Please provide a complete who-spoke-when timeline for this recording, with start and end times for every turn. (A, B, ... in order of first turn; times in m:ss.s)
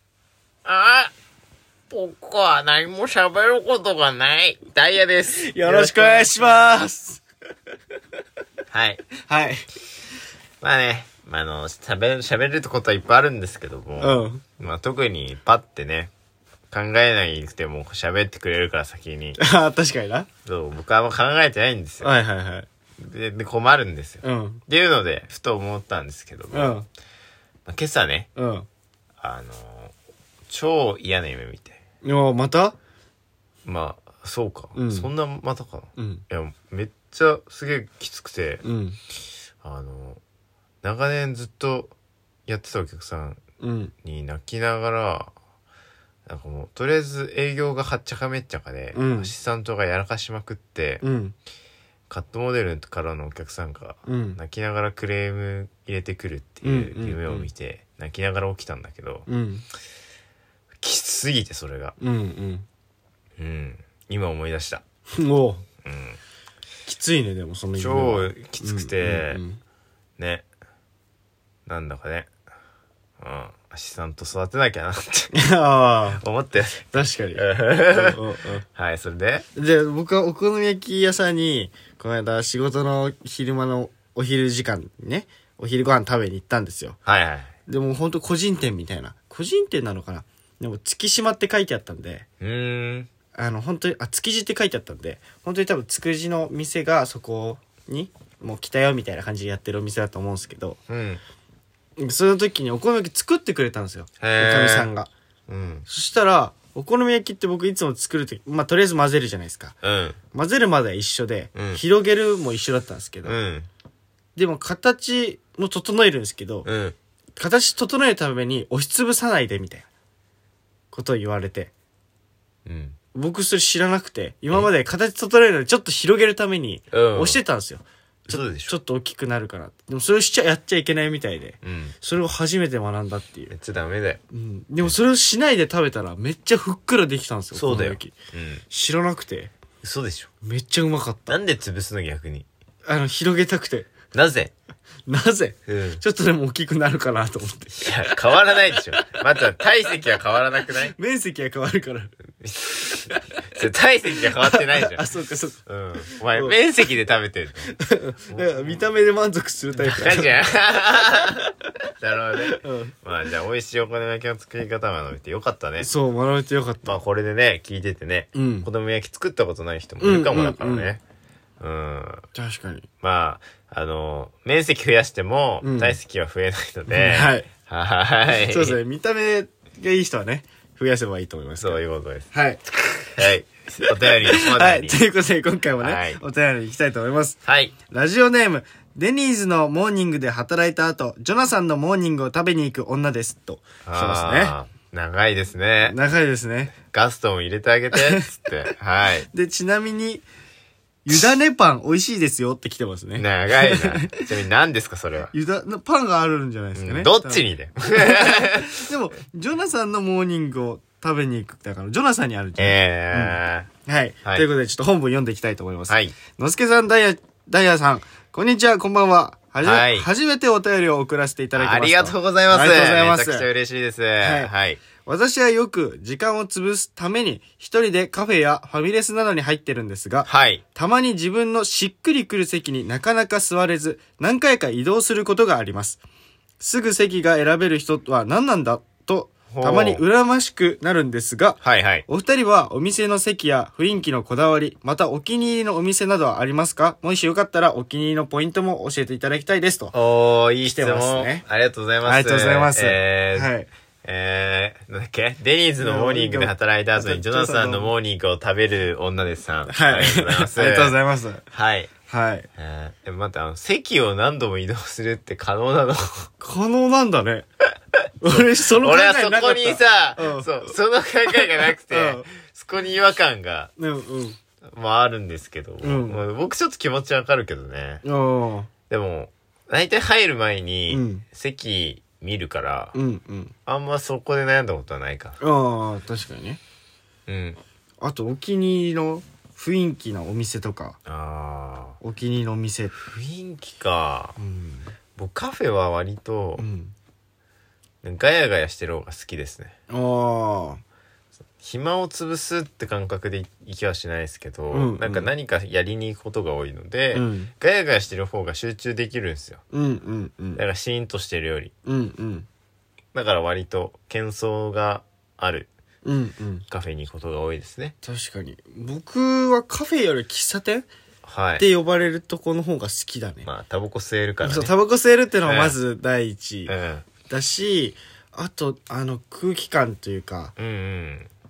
0:00.6-0:01.1 A
0:01.9-0:06.8 A
0:05.4-0:07.2 B
0:08.7-0:09.0 A
0:09.2-0:09.6 B
0:10.6-0:16.1 A
0:14.0-0:14.4 B
0:16.7-0:19.4 A
0:19.4-0:20.3 B
0:20.5-0:22.1 A
0:22.0-0:22.7 B
0:23.0-0:26.8 A
0:24.2-0:24.6 B
0:26.5-0:26.8 B
0:27.6-0:28.3 A
0:28.4-0:28.7 B
0:29.2-0:29.9 A
0:30.5-0:31.8 A
0:32.0-0:32.8 B
0:33.6-0:38.6 A
0:34.8-0:35.1 B
0:36.0-0:36.2 B
0:38.6-0:39.0 B
0:39.6-0:40.2 A
0:40.8-0:42.0 A
0:42.5-0:43.4 A
0:43.6-0:43.9 B
0:44.0-0:45.3 A
0:46.3-0:51.0 A
0:48.9-0:49.3 B
0:51.0-0:51.4 B
0:52.1-0:59.3 A
0:54.1-0:54.4 B
0:56.6-0:57.5 B
0:59.3-0:59.6 B
1:00.8-1:02.0 A
1:02.0-1:02.7 B
1:03.4-1:04.8 A
1:05.2-1:05.6 B
1:05.8-1:06.2 A
1:06.9-1:09.6 B
1:07.8-1:09.4 A
1:10.2-1:10.5 A
1:11.7-1:12.3 A
1:13.2-1:15.3 A
1:15.3-1:16.2 B
1:16.2-1:18.2 A
1:16.9-1:18.6 B
1:18.7-1:19.5 A
1:19.6-1:27.0 B
1:27.1-1:27.5 A
1:27.7-1:32.3 B
1:32.4-1:33.1 A
1:33.4-1:40.8 B
1:40.9-1:41.2 A
1:42.0-1:45.1 B
1:44.2-1:44.9 A
1:45.5-1:45.8 A
1:45.9-1:49.8 B
1:49.8-1:50.2 A
1:50.3-1:53.4 B
1:51.6-1:51.8 A
1:53.2-1:53.7 A
1:54.4-1:56.7 B
1:56.6-1:57.0 A
1:57.4-1:59.9 B
2:00.9-2:01.7 B
2:02.7-2:03.0 A
2:03.1-2:13.5 B
2:06.9-2:07.4 A
2:08.3-2:08.8 A
2:11.6-2:12.0 A
2:13.5-2:14.2 A
2:14.3-2:18.2 B
2:17.6-2:18.6 A
2:18.7-2:19.5 B
2:19.8-2:20.3 A
2:20.4-2:21.4 B
2:21.3-2:22.5 A
2:22.9-2:23.9 B
2:24.1-2:24.5 A
2:25.1-2:28.2 B
2:25.7-2:26.0 A
2:27.7-2:31.0 A
2:31.0-2:32.1 B
2:32.4-2:35.1 A
2:32.8-2:33.4 B
2:34.4-2:35.6 B
2:35.7-2:37.7 A
2:37.7-2:40.3 B
2:38.3-2:38.9 A
2:39.8-2:41.4 A
2:42.0-2:45.9 A
2:42.5-2:43.0 B
2:45.8-2:47.0 B
2:46.8-2:51.0 A
2:48.3-2:48.7 B
2:50.0-2:50.9 B
2:51.6-2:52.3 A
2:52.3-2:52.9 B
2:53.0-2:58.8 A
2:55.6-2:56.0 B
2:56.9-2:57.5 B
2:58.5-3:01.8 B
3:01.6-3:02.3 A
3:02.3-3:03.3 B
3:03.2-3:05.0 A
3:04.3-3:14.6 B
3:05.8-3:06.2 A
3:07.5-3:07.8 A
3:13.8-3:16.0 A
3:15.8-3:16.8 B
3:16.9-3:19.3 A
3:17.9-3:18.3 B
3:19.3-3:20.2 B
3:21.0-3:24.2 B
3:23.2-3:25.3 A
3:25.3-3:43.5 B
3:26.8-3:28.8 A
3:32.6-3:33.7 A
3:35.9-3:36.2 A
3:39.6-3:40.1 A
3:41.6-3:44.8 A
3:44.2-3:44.5 B
3:45.0-3:56.0 B
3:50.3-3:50.6 A
3:56.6-4:09.9 B
3:59.5-4:00.0 A
4:01.6-4:02.1 A
4:09.9-4:13.5 A
4:10.6-4:11.4 B
4:12.0-4:13.7 B
4:14.0-4:21.0 A
4:15.8-4:17.9 B
4:19.7-4:21.4 B
4:21.5-4:21.9 A
4:22.1-4:22.5 B
4:22.6-4:26.3 A
4:26.4-4:27.5 B
4:28.2-4:30.7 B
4:28.2-4:33.7 A
4:31.4-4:32.2 B
4:33.8-4:34.4 B
4:34.7-4:38.0 A
4:35.8-4:36.2 B
4:38.0-4:38.7 B
4:38.9-4:43.0 A
4:40.9-4:41.2 B
4:42.9-4:43.5 B
4:43.7-4:45.4 A
4:45.4-4:46.6 B
4:47.3-4:47.6 A
4:48.0-4:51.0 B
4:51.1-4:52.0 A
4:52.0-4:53.0 B
4:53.0-4:54.4 A
4:54.4-4:54.9 B
4:55.2-4:56.6 A
4:56.6-4:56.9 B
4:58.0-4:59.7 A
4:59.9-5:00.8 B
5:01.6-5:09.6 A
5:04.7-5:05.3 B
5:07.1-5:07.5 B
5:09.7-5:10.6 B
5:10.6-5:11.7 A
5:11.8-5:12.5 B
5:13.1-5:15.7 A
5:16.0-5:16.6 B
5:16.7-5:18.0 A
5:18.0-5:20.9 B
5:21.3-5:21.6 A
5:21.6-5:23.5 B
5:23.4-5:24.7 A
5:24.4-5:26.7 B
5:25.4-5:25.8 A
5:26.7-5:27.0 A
5:27.3-5:30.5 B
5:30.6-5:31.3 A